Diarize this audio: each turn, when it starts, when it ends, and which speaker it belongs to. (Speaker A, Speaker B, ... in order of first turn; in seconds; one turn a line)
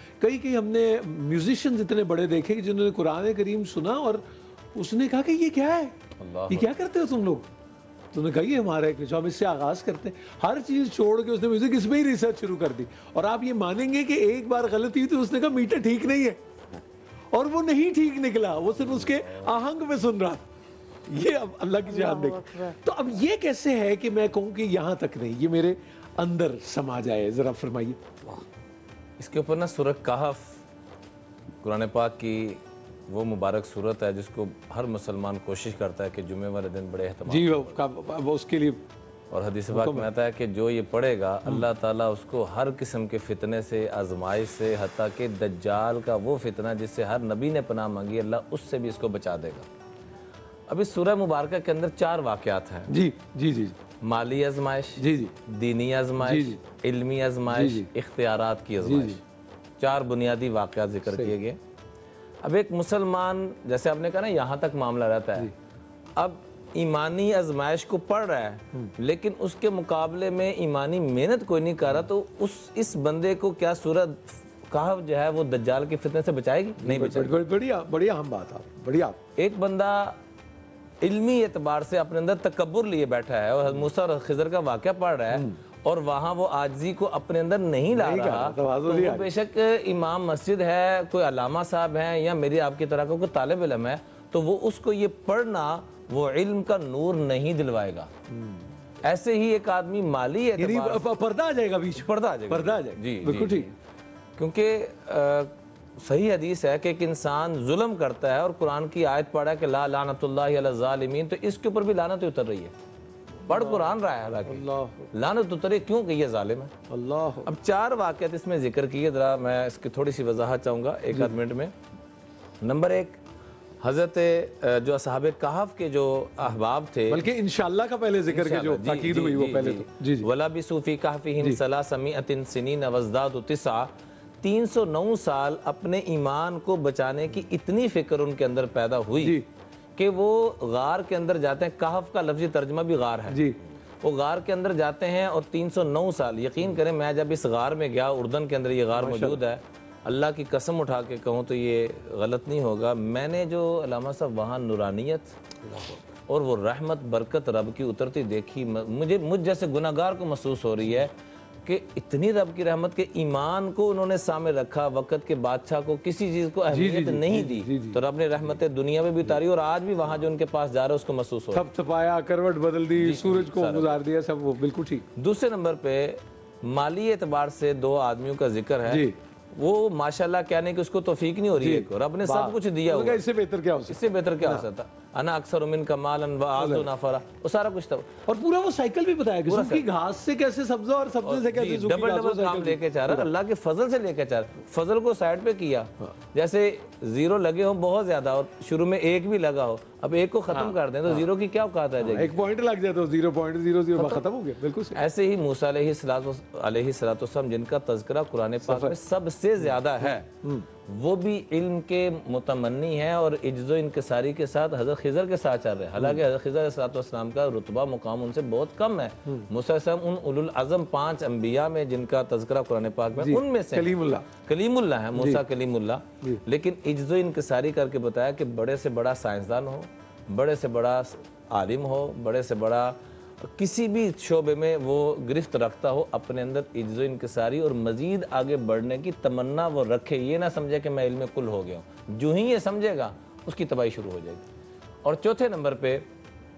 Speaker A: 0.2-4.2
Speaker A: 4.7-7.5
Speaker B: 6.2-6.7
Speaker A: 8.1-16.4
Speaker A: 17.3-20.4
Speaker A: 21.1-28.4
Speaker B: 29.2-30.6
Speaker B: 31.6-37.8
Speaker A: 37.2-38.8
Speaker B: 39.3-49.6
Speaker A: 39.7-40.1
Speaker B: 50.7-52.9
Speaker A: 52.9-53.8
Speaker B: 54.0-59.2
Speaker A: 55.0-55.3
Speaker A: 56.2-56.6
Speaker A: 57.5-57.9
Speaker A: 58.8-59.2
Speaker B: 59.8-61.6
Speaker A: 61.1-61.3
Speaker B: 62.4-65.5
Speaker B: 66.2-77.3
Speaker A: 76.8-79.2
Speaker B: 79.4-80.2
Speaker B: 81.0-98.1
Speaker A: 85.3-85.6
Speaker A: 87.9-89.3
Speaker A: 98.3-98.7
Speaker B: 99.0-101.0
Speaker A: 100.6-103.7
Speaker B: 102.0-103.7
Speaker B: 104.4-112.7
Speaker A: 113.5-113.9
Speaker B: 113.5-116.7
Speaker A: 114.5-115.1
Speaker A: 116.9-117.5
Speaker B: 117.4-121.7
Speaker B: 122.6-123.2
Speaker B: 123.8-127.3
Speaker A: 127.1-130.3
Speaker B: 128.3-133.9
Speaker B: 134.4-139.4
Speaker A: 139.2-139.4
Speaker B: 139.9-143.4
Speaker A: 143.3-143.6
Speaker B: 144.0-155.4
Speaker A: 148.9-149.4
Speaker A: 155.7-156.0
Speaker B: 156.2-161.1
Speaker B: 161.6-171.7
Speaker A: 166.7-168.0
Speaker A: 171.5-175.1
Speaker B: 172.9-174.0
Speaker B: 175.2-183.2
Speaker A: 178.8-179.1
Speaker A: 181.6-184.6
Speaker B: 183.9-188.1
Speaker A: 186.6-186.9
Speaker A: 188.2-193.3
Speaker B: 189.4-189.8
Speaker B: 191.2-202.4
Speaker A: 200.5-201.2
Speaker A: 202.0-205.0
Speaker B: 203.9-204.2
Speaker B: 204.9-210.3
Speaker A: 208.6-208.9
Speaker A: 210.0-210.7
Speaker B: 210.8-244.4
Speaker A: 223.2-224.3
Speaker A: 225.2-225.4
Speaker B: 245.0-246.0